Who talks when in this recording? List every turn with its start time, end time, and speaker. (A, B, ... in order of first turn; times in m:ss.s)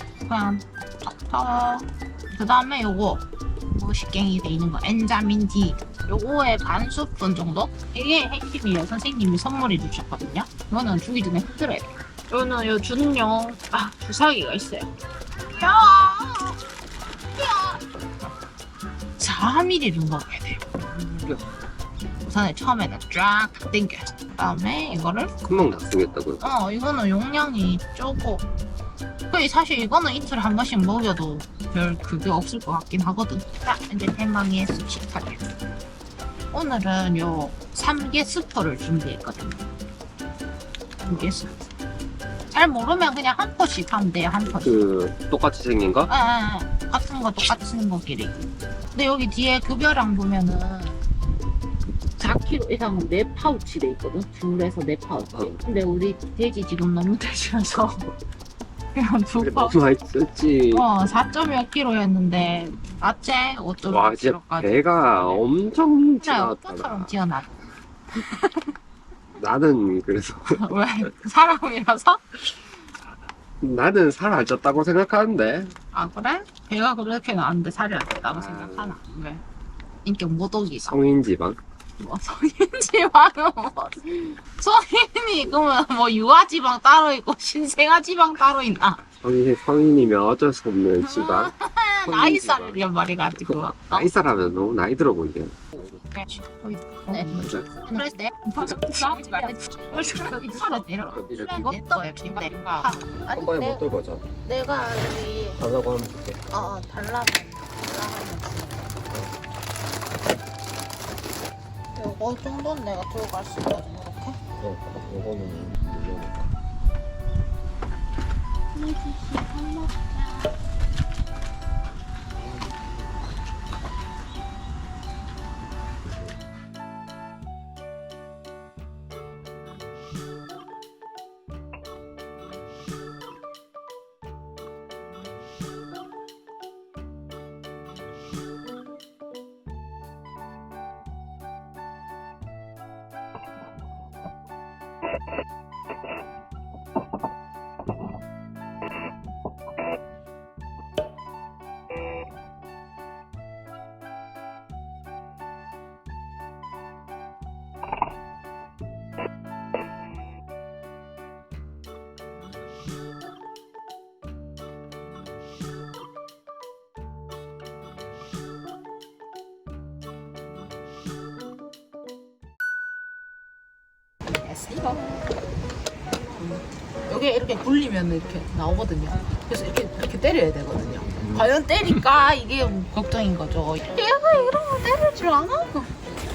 0:00.2-0:14.9 A
0:15.5-0:16.6 A
0:17.4-0:17.8 A
0:19.2-0:20.8 A
0:21.0-0:21.4 B
0:22.2-0:25.4 A
0:25.4-0:26.4 B
0:26.4-0:28.5 A
0:29.3-0:35.4 A
0:36.5-0:39.6 A
0:41.0-0:41.6 A
0:42.5-0:44.9 A
0:44.5-0:46.1 B
0:46.1-0:51.0 A
0:52.2-0:58.1 A
0:58.9-0:59.8 A
0:59.4-1:00.9 B
1:00.7-1:05.4 A
1:03.9-1:07.1 B
1:06.2-1:07.5 A
1:08.1-1:08.7 A
1:09.4-1:10.6 B
1:10.5-1:12.5 A
1:13.6-1:15.7 B
1:15.9-1:19.4 A
1:18.3-1:19.0 B
1:20.0-1:21.0 A
1:20.8-1:21.6 B
1:22.0-1:29.0 A
1:29.2-1:31.5 B
1:31.0-1:34.1 A
1:32.1-1:32.9 B
1:33.4-1:35.5 B
1:35.8-1:43.8 A
1:41.0-1:41.8 B
1:43.3-1:44.3 B
1:44.4-1:45.6 A
1:45.6-1:46.4 B
1:46.5-1:49.0 A
1:52.0-1:54.4 A
1:54.6-1:56.5 B
1:58.7-2:00.5 A
2:54.4-2:55.3 A
2:56.1-3:05.9 A
3:01.1-3:01.5 B